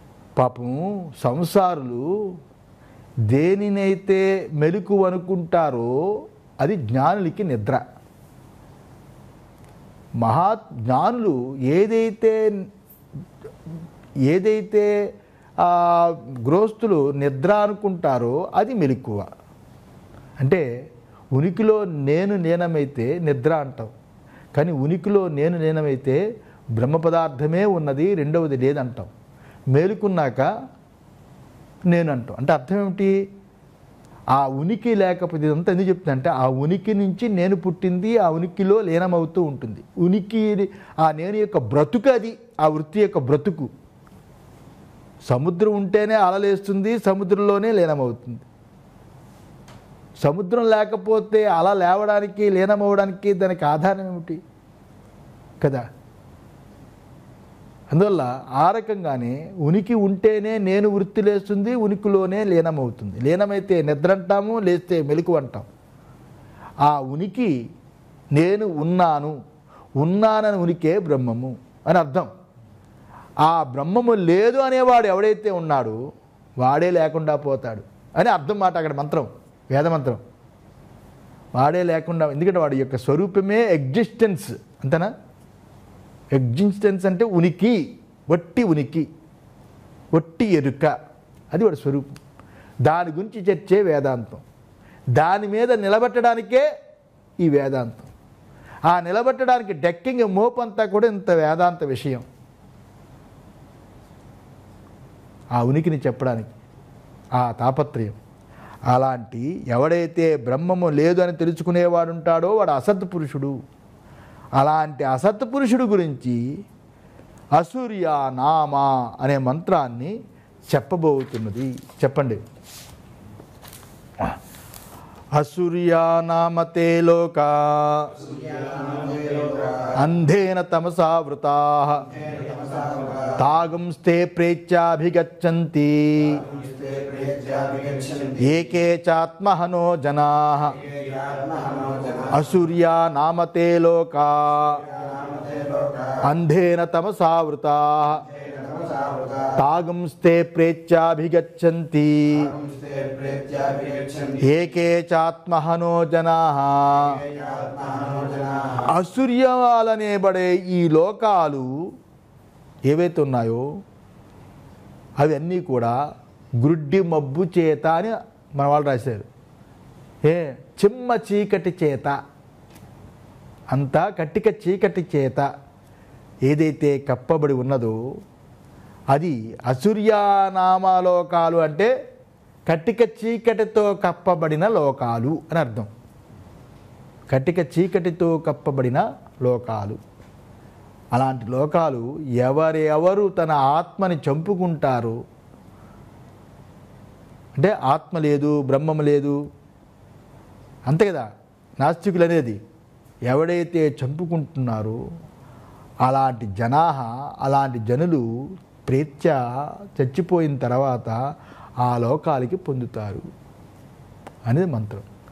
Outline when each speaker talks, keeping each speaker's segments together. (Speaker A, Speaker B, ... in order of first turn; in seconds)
Speaker A: 0.4-2.1, 3.3-5.9, 6.6-7.8, 10.2-12.6, 14.3-14.9, 15.6-19.3, 20.4-20.6, 21.4-23.9, 24.6-26.2, 26.8-29.1, 29.7-30.5, 31.9-33.2, 34.3-43.7, 45.2-48.5, 50.2-54.4, 57.9-65.7, 66.8-67.5, 68.3-69.4, 70.0-72.3, 73.4-76.0, 76.6-80.2, 81.6-85.1, 86.3-89.1, 90.1-90.9, 91.5-92.2, 92.8-94.4, 95.2-96.7, 97.4-98.1, 98.9-102.2, 105.6-106.5, 107.4-108.2, 108.9-113.5, 114.6-116.4, 117.6-120.2, 120.7-122.4, 125.3-128.2, 129.9-132.1, 133.4-136.4, 138.4-140.8, 142.3-144.8, 146.2-148.2, 149.6-152.5, 154.4-157.2, 158.9-161.7, 162.9-163.7, 165.2-166.0, 166.6-169.3, 170.2-172.2, 173.7-175.5, 176.5-178.0, 179.1-181.9, 182.7-185.9, 187.3-190.0, 191.1-195.2, 197.6-199.4, 200.9-201.3, 201.8-202.6, 203.3-205.0, 206.1-208.3, 208.9-209.4, 210.0-211.2, 211.8-213.3, 214.5-215.1
Speaker B: 128.2-130.0, 132.1-133.4, 136.4-138.5, 140.9-142.4, 144.9-146.2, 148.3-149.6, 152.5-154.6, 157.2-158.9